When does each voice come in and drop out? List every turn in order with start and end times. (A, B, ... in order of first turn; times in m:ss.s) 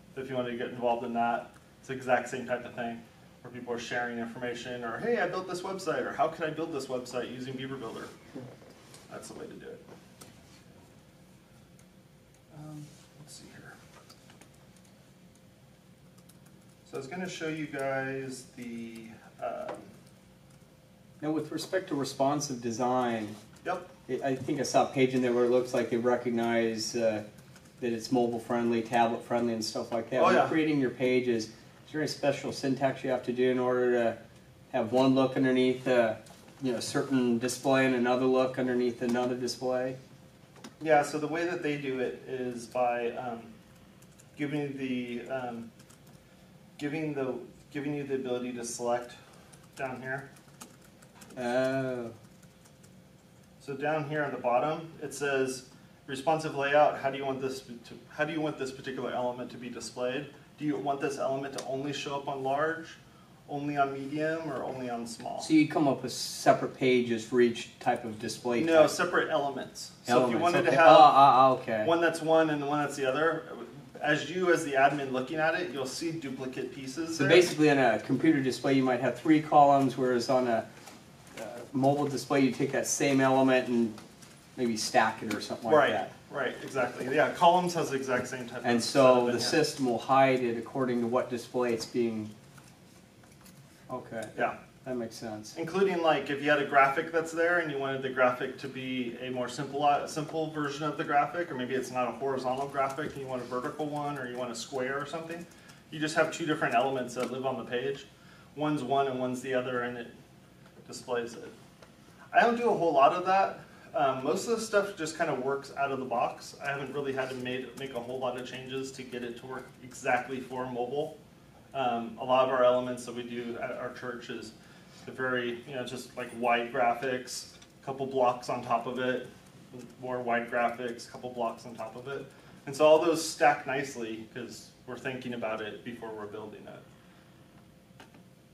0:00.1-0:08.1 A
0:09.1-0:09.8 A
0:12.5-0:13.8 A
0:16.9-0:19.9 A
0:21.2-0:23.4 B
0:23.6-0:23.9 A
0:24.1-0:27.2 B
0:27.8-0:34.2 B
0:30.2-0:30.5 A
0:34.7-0:40.0 B
0:40.8-0:43.5 A
0:44.4-0:45.7 A
0:46.8-0:49.2 A
0:49.8-0:50.3 A
0:51.3-0:52.1 B
0:53.6-1:05.5 A
1:05.4-1:08.9 B
1:08.6-1:17.5 A
1:10.1-1:11.9 B
1:17.2-1:20.6 B
1:21.4-1:24.0 B
1:24.6-1:26.1 B
1:25.7-1:29.6 A
1:28.6-1:32.3 B
1:33.9-1:35.6 B
1:35.5-1:50.1 A
1:50.8-1:51.5 A
1:52.3-2:01.2 A
2:01.7-2:04.5 A
2:05.0-2:16.8 A